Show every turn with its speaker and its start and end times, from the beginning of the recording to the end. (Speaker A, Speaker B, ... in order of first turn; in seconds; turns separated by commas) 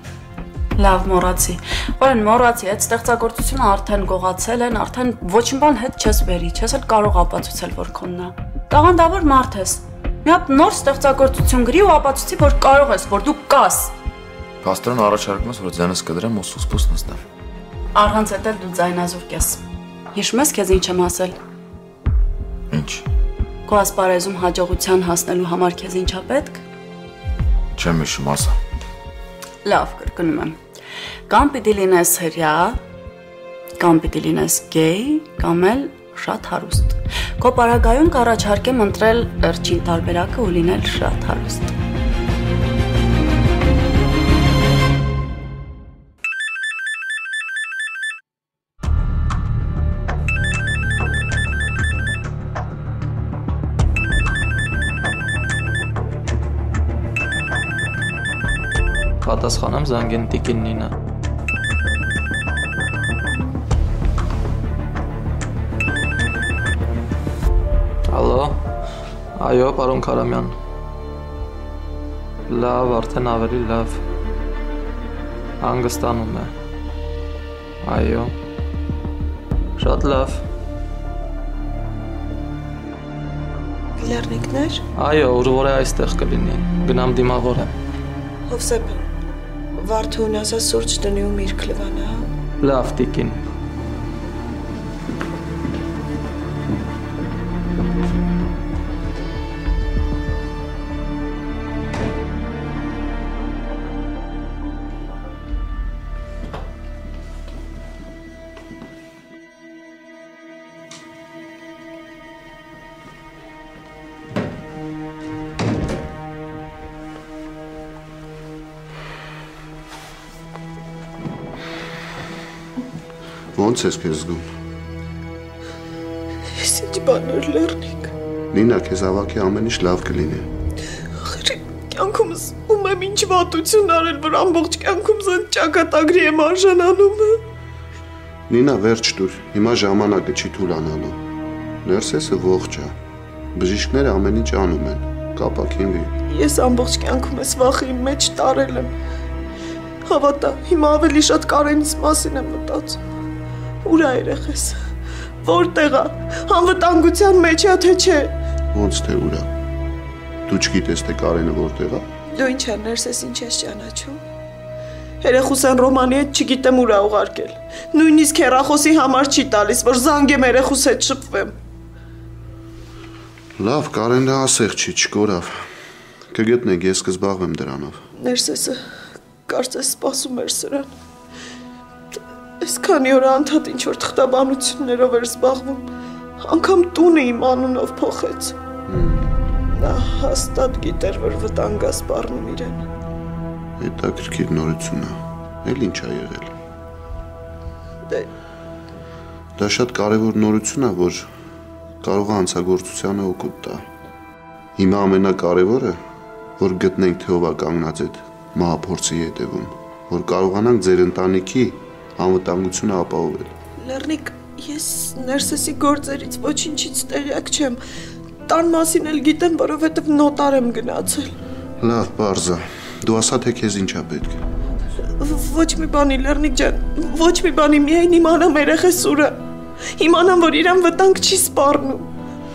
Speaker A: 0.8-13.9, Speaker B: 14.6-17.2, Speaker A: 17.9-19.6, Speaker A: 20.1-21.4, Speaker B: 22.7-23.1, Speaker A: 23.7-26.6, Speaker B: 27.8-28.6, Speaker A: 29.6-30.6, Speaker A: 31.3-32.8, Speaker A: 33.8-41.7, Speaker C: 59.2-60.9, Speaker C: 68.1-68.7, Speaker C: 69.4-70.6, Speaker C: 72.5-74.0, Speaker C: 75.6-76.5, Speaker C: 77.8-78.3, Speaker C: 79.8-80.5, Speaker D: 84.0-84.8, Speaker C: 85.0-87.7, Speaker D: 88.5-89.0, Speaker D: 89.8-92.3, Speaker C: 92.6-93.4, Speaker E: 123.5-124.5, Speaker D: 126.5-128.1, Speaker E: 128.5-130.5, Speaker D: 131.1-137.4, Speaker E: 138.5-141.2, Speaker E: 141.8-142.9, Speaker E: 143.6-146.1, Speaker D: 146.3-148.9, Speaker D: 150.1-153.0, Speaker D: 153.8-154.8, Speaker D: 155.4-158.3, Speaker E: 158.7-159.5, Speaker E: 160.5-162.1, Speaker D: 162.3-164.2, Speaker D: 165.2-171.6, Speaker E: 173.6-175.7, Speaker E: 176.3-178.0, Speaker D: 178.2-180.9, Speaker D: 182.6-185.8, Speaker D: 186.4-188.6, Speaker E: 188.9-189.3, Speaker D: 189.7-192.8, Speaker E: 193.8-196.5, Speaker E: 199.6-201.3, Speaker E: 202.0-203.8, Speaker E: 204.8-206.0, Speaker E: 206.6-213.5, Speaker D: 213.8-217.8, Speaker D: 218.5-221.3, Speaker E: 221.8-224.4, Speaker D: 225.1-229.4, Speaker D: 230.0-232.1